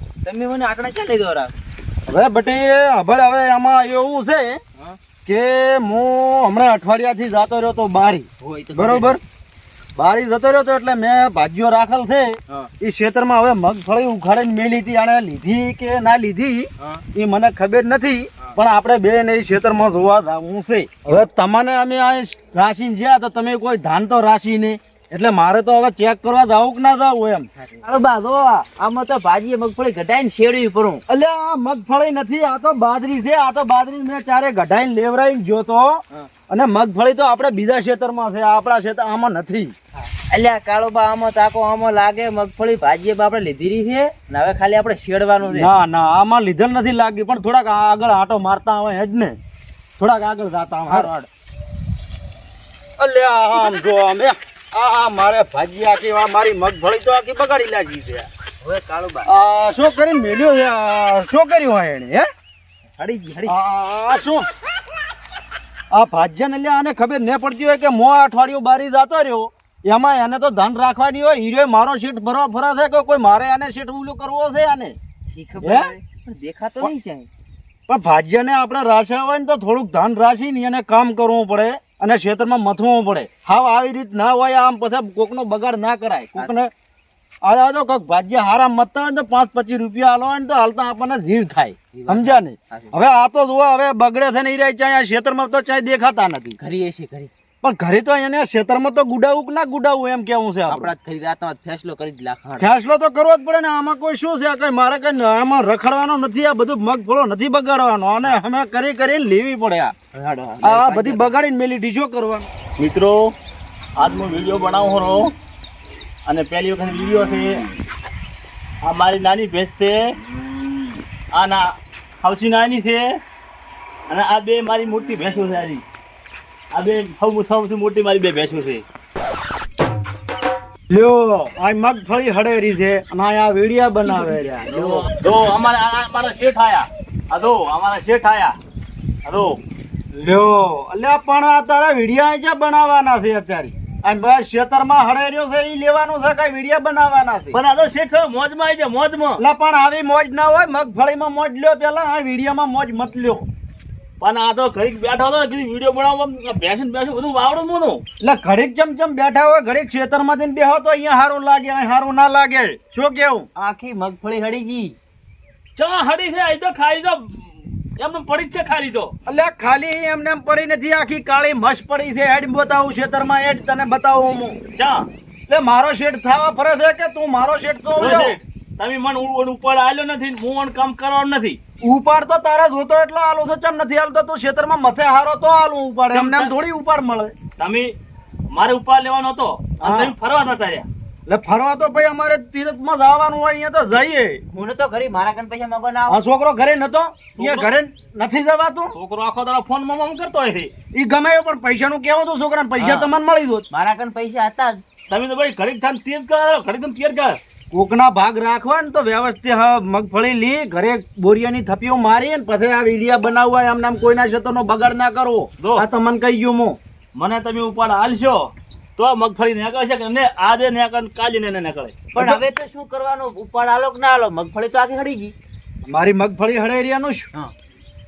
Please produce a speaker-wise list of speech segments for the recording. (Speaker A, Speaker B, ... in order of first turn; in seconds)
Speaker A: 0.2-1.5, 8.4-9.2, 27.6-31.0, 40.0-45.7, 50.9-51.1, 58.6-59.3, 62.9-63.5, 75.3-77.3, 91.9-92.9, 96.6-97.3, 100.7-102.7, 110.1-111.3, 163.6-165.0, 194.5-196.2, 202.8-203.1, 203.7-204.8, 222.2-225.3
Speaker B: 2.1-4.6, 5.3-9.2, 10.0-27.5, 31.1-39.7, 45.5-49.4, 50.0-51.2, 53.0-58.3, 59.3-62.3, 63.5-64.5, 65.9-75.0, 75.6-75.9, 77.9-86.7, 87.4-96.6, 97.6-100.9, 102.6-110.0, 110.6-112.5, 130.9-135.1, 140.1-147.6, 149.4-153.5, 158.2-163.5, 169.3-174.6, 175.5-178.4, 181.8-187.3, 189.8-190.2, 191.3-194.4, 196.1-198.9, 200.9-203.7, 207.7-216.8, 222.2-222.4, 225.9-227.3
Speaker C: 112.8-113.3, 114.0-115.3, 116.3-117.7, 118.8-120.2, 121.3-123.2, 124.1-125.8, 126.7-128.8, 134.7-138.6, 139.2-139.6, 147.5-149.4, 154.2-158.0, 165.8-169.1, 174.8-175.1, 178.0-181.6, 186.1-186.5, 187.6-187.9, 188.5-190.9, 197.4-197.7, 198.9-200.7, 205.1-207.4, 215.6-215.9, 217.2-222.0